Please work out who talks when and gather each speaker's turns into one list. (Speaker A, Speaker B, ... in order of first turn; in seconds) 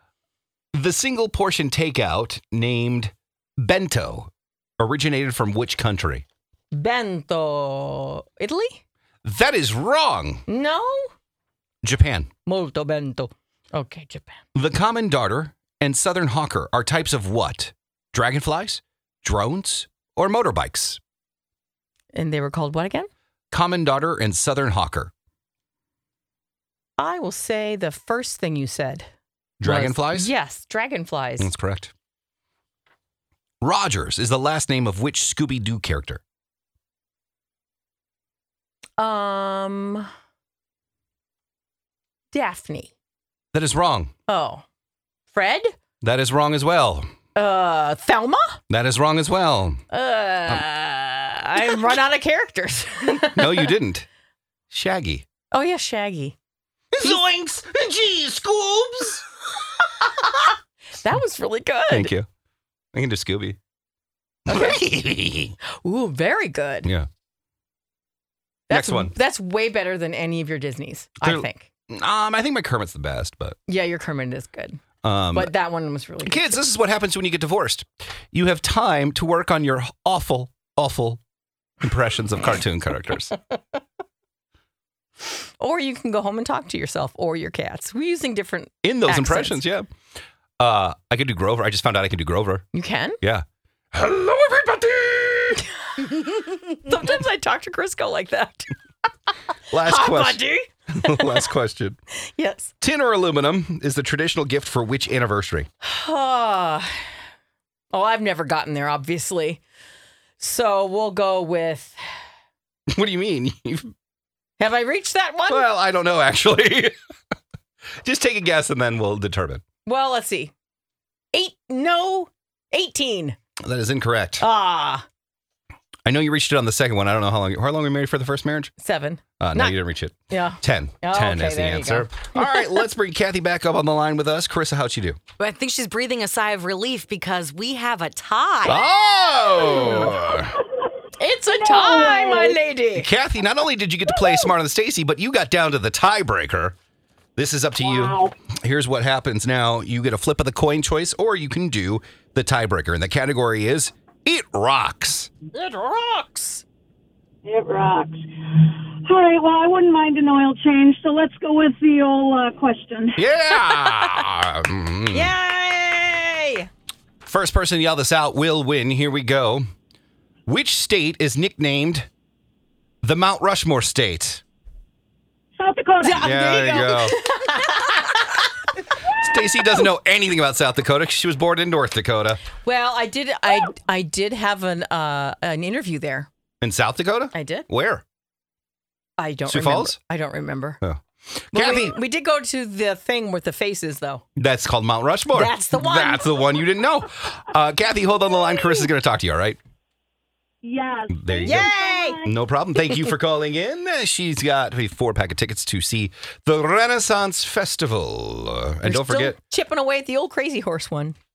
Speaker A: 0.7-6.2, 9.2-10.4, 11.8-12.3, 14.6-21.0, 23.5-25.1, 29.6-30.3, 31.4-31.9, 33.6-36.2, 43.5-44.1, 46.0-47.1, 48.7-49.8, 53.4-54.1, 54.7-55.2, 56.9-59.2, 61.9-62.3, 62.9-63.6, 64.5-65.6, 68.7-69.1, 71.2-73.6, 75.0-75.5, 76.3-81.2, 81.8-83.3, 88.8-89.9, 90.6-92.7, 93.2-95.6, 99.7-100.4, 100.9-102.0, 102.8-105.7, 112.9-113.9, 115.5-117.0, 118.0-119.6, 123.7-124.4, 126.1-128.7, 129.4-135.2, 138.7-140.6, 143.0-146.8, 147.4-155.3, 163.2-165.3, 167.3-169.7, 170.5-172.1, 173.0-174.4, 176.2-177.2, 179.1-182.4, 186.6-188.0, 189.5-190.0, 190.8-192.0, 194.4-199.6, 201.1-201.7, 202.2-209.4
Speaker B: 6.7-8.8, 10.5-11.1, 12.5-14.4, 22.1-23.1, 27.0-29.1, 29.6-31.5, 39.0-40.1, 42.3-42.9, 44.3-44.6, 45.3-45.7, 47.4-48.6, 49.9-53.7, 55.5-56.4, 61.0-62.1, 64.5-64.8, 65.7-66.9, 68.7-71.7, 73.7-74.8, 75.3-76.6, 85.6-89.6, 92.7-93.2, 96.0-98.7, 99.7-101.4, 102.2-102.7, 105.8-106.9, 107.9-109.6, 110.4-112.0, 114.6-115.7, 119.9-120.5, 121.3-123.4, 124.4-125.0, 128.8-129.8, 130.3-132.6, 141.2-143.1, 155.5-156.6, 163.8-164.2, 165.1-166.7, 176.0-178.4, 182.6-186.3, 187.3-187.7, 189.2-190.8, 191.5-194.2, 195.3-196.6, 201.4-202.2, 208.8-211.2
Speaker C: 135.4-138.8
Speaker D: 141.6-142.6, 147.8-148.3, 157.4-163.2, 175.6-176.3, 200.6-202.3